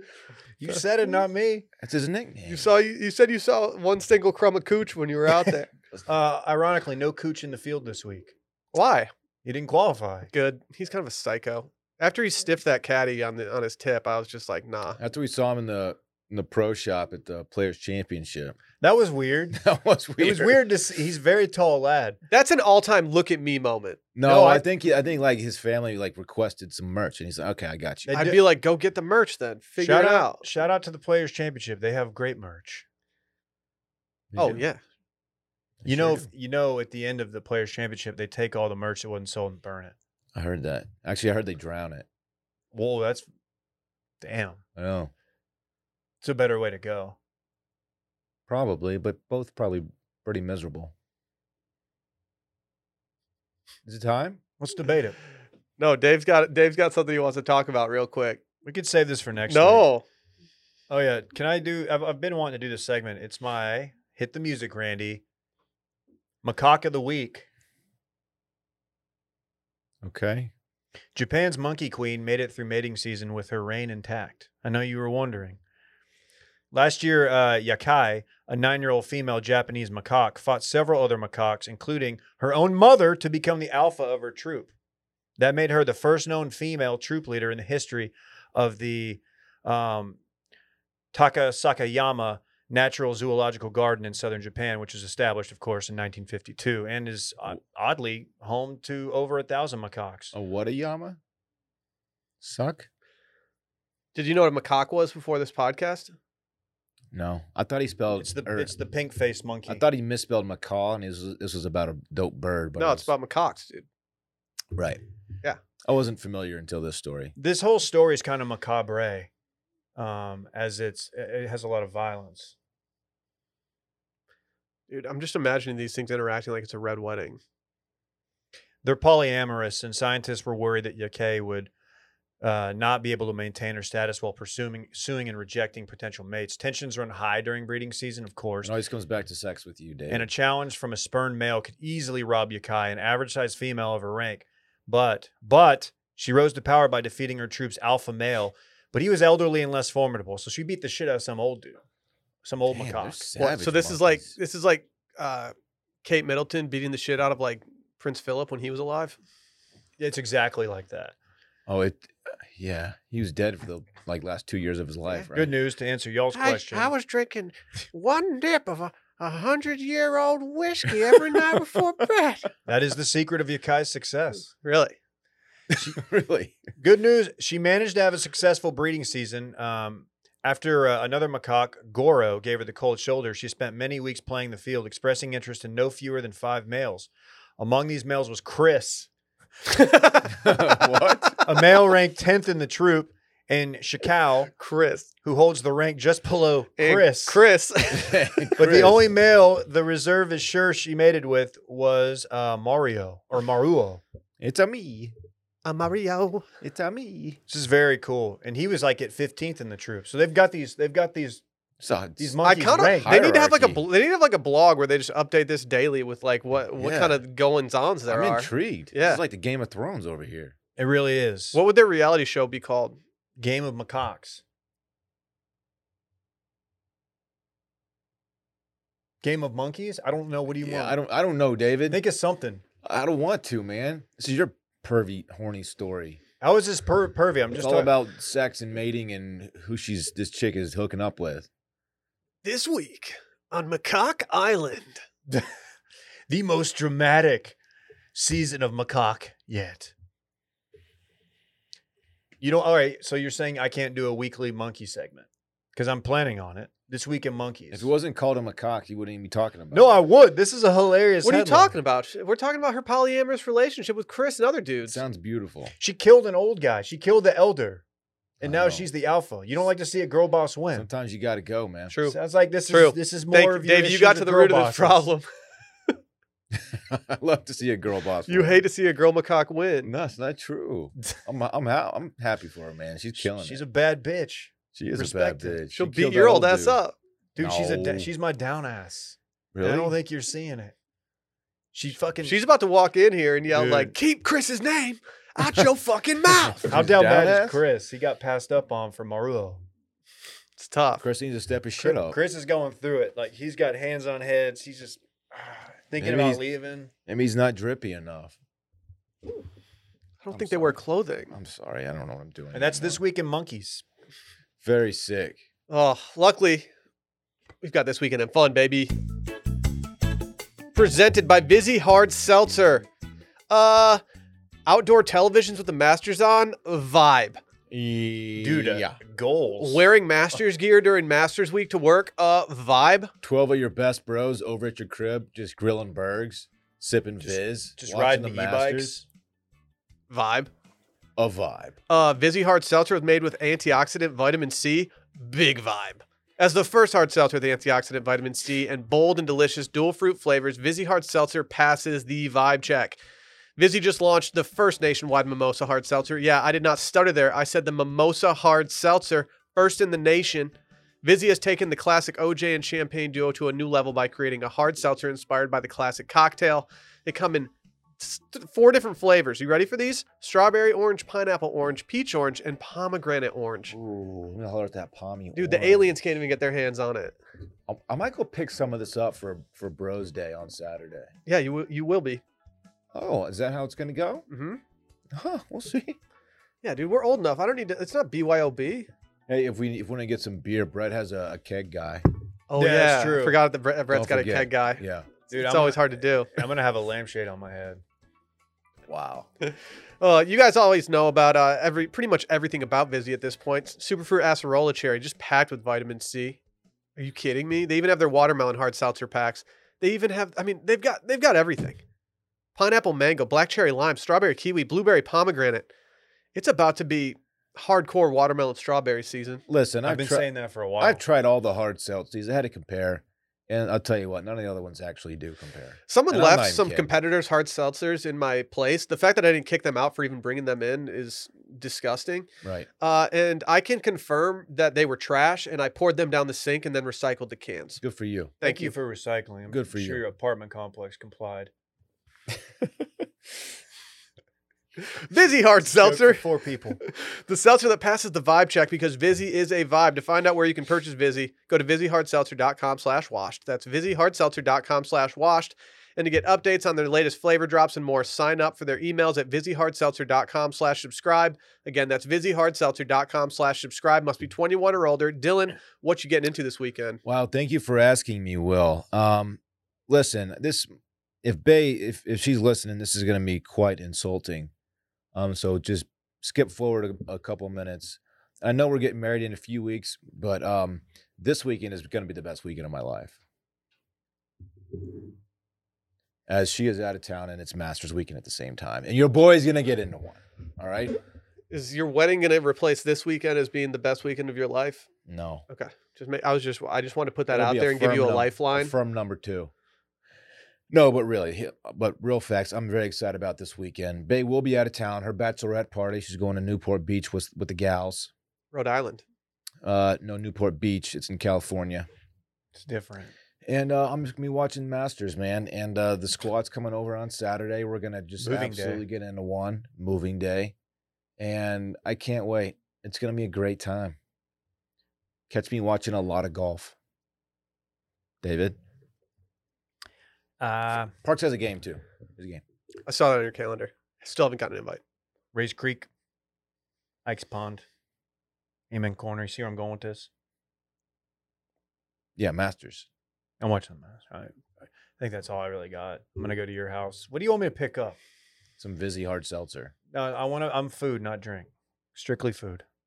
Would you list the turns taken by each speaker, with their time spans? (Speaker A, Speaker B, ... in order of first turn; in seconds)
Speaker A: 0.6-1.6, 6.0-8.3, 9.4-10.3, 18.8-19.6, 20.2-22.2, 24.2-24.6, 28.1-28.4, 29.8-32.8, 35.8-39.9, 42.7-43.3, 44.2-44.6, 46.2-47.2, 54.6-55.2, 58.6-59.9, 60.9-65.2, 66.4-67.5, 71.1-75.6, 76.7-84.7, 85.4-90.2, 91.1-100.3, 108.2-109.8, 117.3-119.3, 119.9-122.5, 128.8-131.7, 132.4-138.7, 140.1-151.8, 152.4-153.2, 160.0-161.2, 165.3-166.9, 172.7-174.5, 176.8-189.1, 191.4-194.5, 195.2-197.4, 198.6-204.0, 207.5-211.4, 212.2-213.2, 220.8-221.6, 223.4-224.4, 229.2-230.9, 231.9-232.6, 236.4-237.9, 246.3-247.6, 248.1-249.9, 252.4-257.9, 259.7-261.7, 265.8-267.8, 268.4-270.9, 272.1-275.1, 283.2-285.6, 287.4-290.7, 291.7-292.4, 293.5-293.9, 296.7-299.6, 301.8-306.9, 312.5-313.8, 328.4-329.9, 337.2-339.1, 392.5-393.4, 395.3-397.8, 419.8-421.0, 438.4-441.5, 445.6-446.8, 512.6-513.1, 518.2-518.8, 530.4-530.9, 535.3-535.9, 537.0-537.6, 538.7-540.1, 543.4-548.0, 549.9-552.6
Speaker B: 1.8-2.7, 15.0-18.6, 19.5-20.7, 24.1-28.2, 34.3-34.6, 35.8-36.3, 40.3-42.0, 44.8-45.1, 48.5-50.9, 53.8-54.4, 70.0-70.5, 100.3-101.2, 102.4-102.9, 107.1-108.7, 109.7-113.1, 114.7-115.0, 115.8-117.3, 138.6-140.3, 152.7-154.3, 161.7-165.5, 171.1-171.6, 175.7-176.6, 190.3-191.4, 197.9-199.1, 204.4-205.1, 206.6-207.4, 211.8-213.8, 216.8-217.2, 218.1-220.5, 230.6-232.0, 232.8-236.2, 237.5-241.5, 257.7-260.0, 264.9-265.7, 268.4-268.9, 270.8-271.9, 276.5-278.6, 279.8-283.6, 284.7-286.8, 287.4-288.1, 289.5-289.9, 296.3-297.6, 301.0-302.2, 306.0-306.4, 307.1-308.3, 310.3-313.0, 314.6-315.4, 327.7-329.0, 333.2-339.0, 341.2-341.8, 373.7-375.9, 377.7-381.1, 382.9-384.2, 385.1-386.0, 389.3-392.0, 393.9-395.1, 398.9-399.3, 419.5-420.3, 420.8-426.9, 432.4-432.7, 437.8-438.3, 439.5-440.0, 467.0-470.7, 471.2-474.5, 475.1-483.2, 486.3-491.0, 495.1-495.4, 497.3-499.5, 500.7-508.1, 509.6-511.9, 513.4-520.5, 521.2-524.0, 525.3-526.7, 528.2-528.6, 531.0-532.4, 542.2-542.9, 548.6-549.7
Speaker C: 2.4-5.7, 8.7-9.1, 10.3-15.0, 22.3-24.0, 28.1-30.4, 34.4-34.8, 55.8-58.4, 59.5-60.0, 104.1-106.1, 112.8-113.8, 124.9-127.4, 153.4-155.5, 156.0-159.2, 166.3-172.5, 174.6-174.9, 189.7-190.6, 194.5-195.1, 196.8-198.5, 205.6-206.4, 212.4-219.2, 221.5-223.0, 242.4-245.0, 261.2-265.0, 271.9-272.1, 272.7-275.2, 278.3-279.9, 285.7-286.9, 292.2-296.7, 300.6-301.0, 310.2-311.3, 315.7-316.7, 317.6-318.9, 320.7-322.9, 323.5-324.0, 324.6-327.4, 329.6-333.1, 340.1-340.5, 341.9-353.0, 353.6-373.8, 375.4-377.1, 381.2-382.2, 384.3-384.6, 386.6-388.9, 392.5-396.3, 399.4-406.4, 407.0-411.8, 412.6-415.7, 416.3-419.4, 425.9-432.3, 432.8-437.8, 438.4-438.7, 444.8-446.2, 446.8-467.0, 491.5-494.9, 495.5-498.7, 508.5-509.0, 532.9-534.8